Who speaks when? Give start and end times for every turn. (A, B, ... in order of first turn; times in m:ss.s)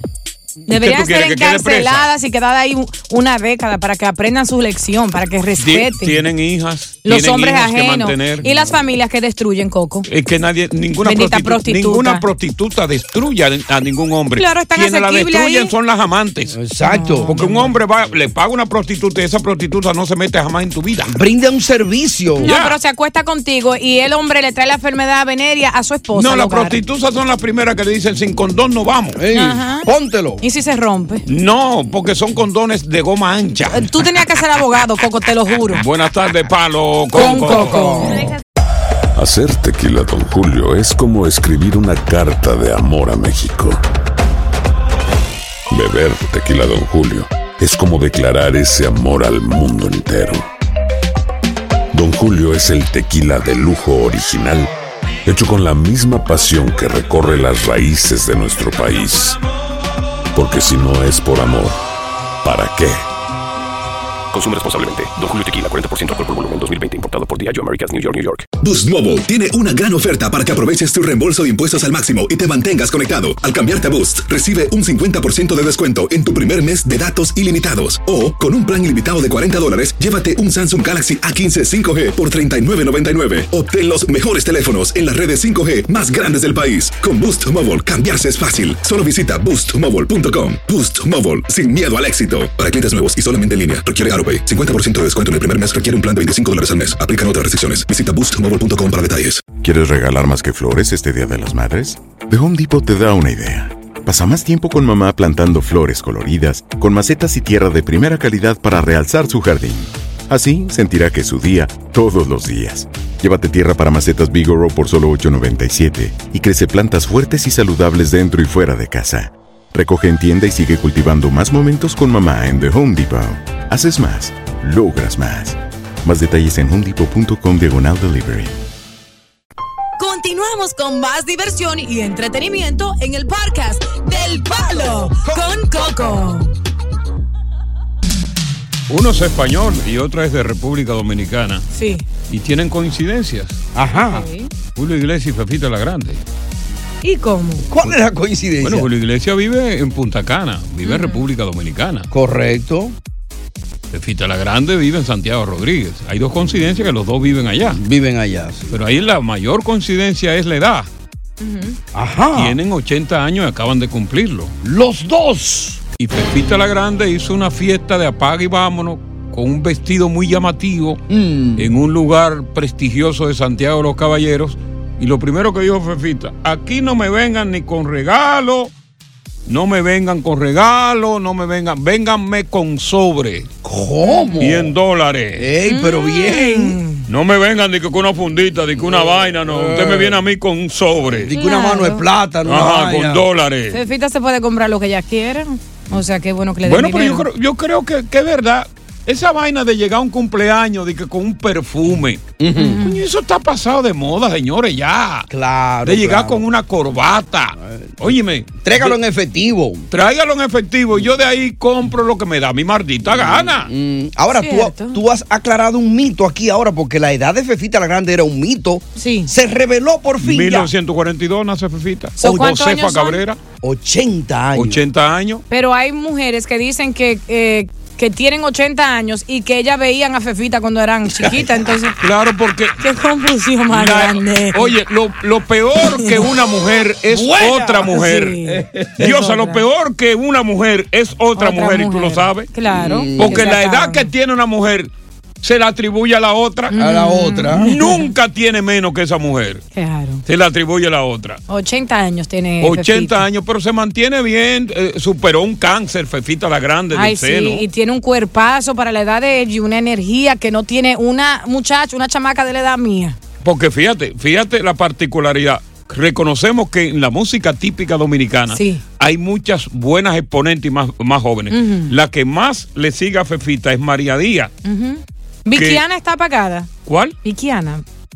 0:00.7-0:06.2 A
0:00.7-0:02.1 B
0:05.6-0:08.4 B
0:07.0-0:10.1 A
0:10.1-0:16.6 B
0:11.0-0:12.2 A
0:14.4-0:15.7 A
0:16.5-0:17.4 C
0:16.8-0:17.7 A
0:17.3-0:21.1 B
0:21.1-0:22.5 C
0:22.4-0:22.8 B
0:22.4-0:26.8 A
0:26.1-0:29.2 B
0:29.2-0:30.4 C
0:29.3-0:29.9 A
0:30.4-0:31.2 A
0:31.3-0:33.9 B
0:33.7-0:35.8 A
0:35.7-0:38.0 B
0:37.1-0:38.4 C
0:37.1-0:38.3 A
0:39.2-0:43.8 D
0:45.7-0:50.4 D
0:51.9-0:54.7 D
0:55.2-0:59.4 D
1:00.3-1:01.8 D
1:02.4-1:03.0 D
1:04.3-1:08.5 E
1:08.6-1:39.4 F
1:39.6-2:08.6 G
2:10.0-2:16.5 A
2:18.9-2:21.6 B
2:21.7-2:22.0 A
2:22.3-2:23.6 B
2:23.7-2:24.2 C
2:24.0-2:24.5 A
2:24.8-2:26.2 B
2:27.0-2:27.7 A
2:27.7-2:28.9 C
2:28.6-2:32.1 B
2:30.8-2:31.2 A
2:32.1-2:33.0 C
2:33.9-2:37.8 B
2:37.7-2:38.7 C
2:38.7-2:40.9 B
2:41.4-2:41.8 A
2:41.9-2:42.6 C
2:42.3-2:44.5 B
2:44.6-2:45.8 C
2:46.0-2:51.0 B
2:51.1-2:51.7 C
2:51.6-2:58.7 B
2:59.4-3:03.5 B
3:03.6-3:04.7 C
3:04.0-3:04.4 A
3:04.4-3:05.5 B
3:05.4-3:06.8 C
3:05.7-3:07.0 A
3:07.1-3:11.3 B
3:08.8-3:10.2 C
3:11.1-3:13.2 C
3:11.3-3:12.0 A
3:12.4-3:13.8 B
3:13.7-3:17.2 A
3:16.6-3:22.2 B
3:22.4-3:22.8 C
3:22.6-3:23.0 A
3:22.8-3:25.3 B
3:25.3-3:26.4 C
3:25.8-3:29.0 B
3:27.6-3:28.1 C
3:28.6-3:29.8 C
3:29.9-3:33.7 B
3:33.0-3:40.7 C
3:34.3-3:35.0 A
3:39.0-3:39.3 A
3:40.2-3:43.4 B
3:42.2-3:43.2 A
3:43.6-3:44.8 C
3:44.5-3:45.4 B
3:45.5-3:52.0 A
3:51.2-3:51.5 C
3:52.0-3:52.8 B
3:52.8-3:54.7 A
3:53.7-3:58.4 B
3:56.0-3:56.2 A
3:57.1-3:59.1 C
3:57.9-3:59.6 A
3:59.0-4:02.5 B
4:01.4-4:04.1 A
4:02.7-4:03.5 C
4:03.2-4:04.9 B
4:05.4-4:06.7 B
4:06.7-4:08.1 A
4:06.7-4:07.7 C
4:07.5-4:09.6 B
4:09.7-4:10.2 A
4:10.2-4:11.4 B
4:11.5-4:13.2 A
4:12.6-4:17.6 B
4:16.9-4:23.2 A
4:23.4-4:34.5 B
4:28.5-4:28.8 A
4:31.5-4:31.9 A
4:34.6-4:36.7 A
4:35.5-4:35.8 B
4:36.8-4:37.2 B
4:37.2-4:37.8 A